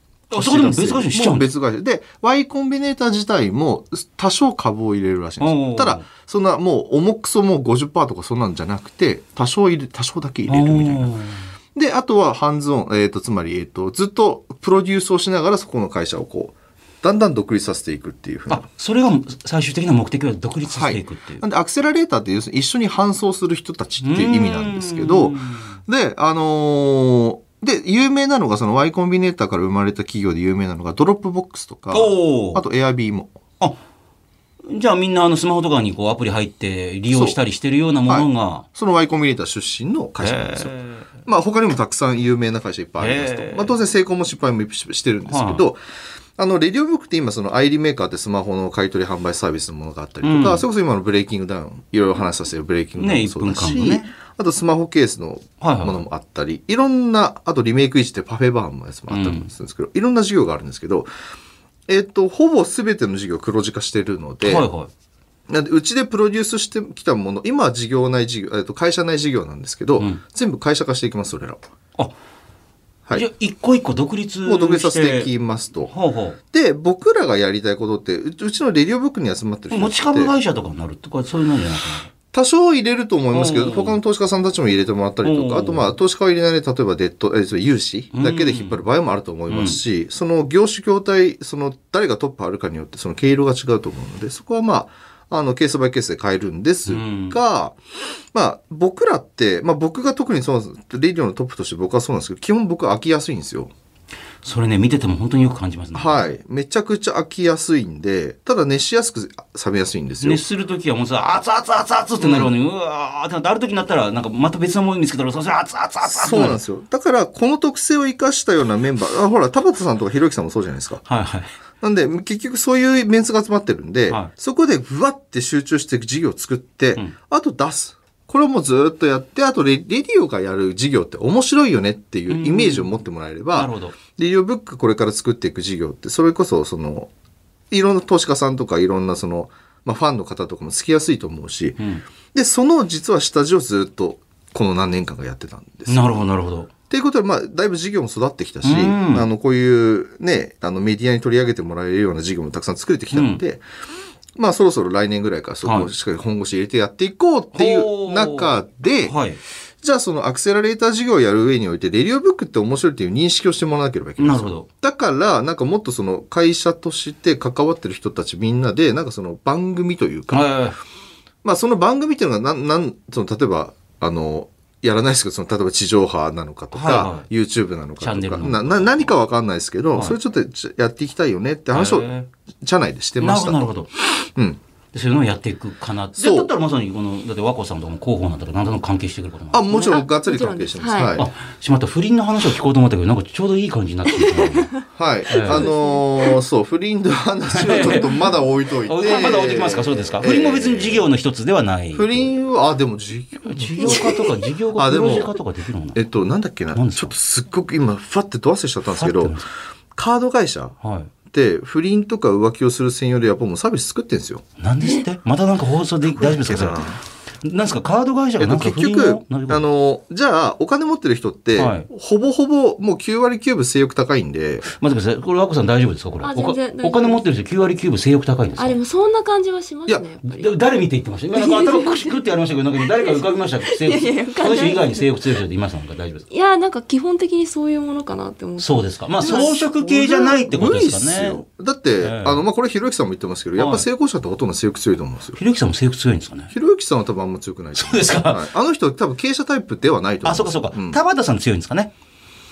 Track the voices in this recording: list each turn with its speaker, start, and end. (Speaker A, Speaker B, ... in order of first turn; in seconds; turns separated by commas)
Speaker A: 0.3-11.1, Speaker B: 0.3-1.5, Speaker B: 5.4-6.1, Speaker B: 10.5-11.5, Speaker A: 11.8-18.6, Speaker B: 18.5-21.4, Speaker A: 20.6-33.3, Speaker B: 24.0-25.8, Speaker B: 31.9-32.6, Speaker B: 34.7-38.7, Speaker A: 37.1-37.4, Speaker A: 38.1-45.8, Speaker B: 40.2-41.1, Speaker B: 43.0-43.8, Speaker B: 45.3-45.6, Speaker A: 46.4-61.1, Speaker B: 50.2-50.6, Speaker B: 53.0-54.1, Speaker B: 55.6-56.0, Speaker B: 59.1-59.5, Speaker A: 61.9-64.7, Speaker B: 64.4-64.9, Speaker A: 65.5-71.6, Speaker B: 73.1-75.3, Speaker A: 74.5-75.9, Speaker B: 75.9-76.4, Speaker A: 76.5-80.3, Speaker B: 79.7-82.1, Speaker A: 82.3-97.8, Speaker B: 83.3-84.0, Speaker B: 85.2-85.9, Speaker B: 88.1-88.8, Speaker B: 89.5-89.8, Speaker B: 96.9-97.4, Speaker A: 98.3-103.7, Speaker B: 104.4-106.2, Speaker A: 105.9-110.4, Speaker B: 110.2-116.6, Speaker A: 112.2-112.5, Speaker A: 116.0-121.1, Speaker B: 121.1-121.5, Speaker A: 121.8-137.1, Speaker B: 132.3-132.9, Speaker B: 133.6-134.0, Speaker A: 137.7-141.8, Speaker B: 141.8-142.0, Speaker A: 142.3-146.2, Speaker B: 145.9-146.7, Speaker A: 146.9-153.6, Speaker B: 148.6-149.2, Speaker B: 153.1-153.4, Speaker A: 154.4-159.2, Speaker B: 155.6-155.9, Speaker B: 157.5-159.4, Speaker A: 159.8-170.5, Speaker B: 164.2-164.7, Speaker B: 170.3-170.8, Speaker A: 171.4-183.7, Speaker B: 176.7-177.3, Speaker B: 178.0-179.1, Speaker B: 181.7-182.3, Speaker B: 183.2-183.9, Speaker B: 184.9-190.0, Speaker A: 186.2-186.5, Speaker A: 189.5-191.3, Speaker C: 189.9-191.2, Speaker B: 191.2-194.8, Speaker A: 194.9-201.1, Speaker B: 195.3-195.7, Speaker C: 195.4-196.4, Speaker B: 197.5-198.2, Speaker B: 198.8-202.3, Speaker A: 201.9-205.4, Speaker B: 203.5-206.0, Speaker C: 203.8-204.2, Speaker A: 205.9-209.4, Speaker B: 206.7-207.2, Speaker B: 208.9-209.5, Speaker A: 209.9-210.8, Speaker B: 210.8-211.1, Speaker A: 211.3-214.4, Speaker B: 214.6-219.6, Speaker A: 216.1-217.0, Speaker A: 218.4-224.7, Speaker B: 221.6-221.9, Speaker B: 224.7-228.8, Speaker C: 226.2-227.2, Speaker C: 228.6-230.5, Speaker B: 230.2-236.2, Speaker C: 231.3-232.2, Speaker C: 232.8-235.1, Speaker C: 236.3-239.6, Speaker B: 238.6-241.4, Speaker A: 239.3-245.4, Speaker B: 242.0-242.4, Speaker B: 243.6-243.9, Speaker B: 245.4-246.5, Speaker A: 246.5-251.0, Speaker B: 247.8-248.5, Speaker B: 250.2-251.9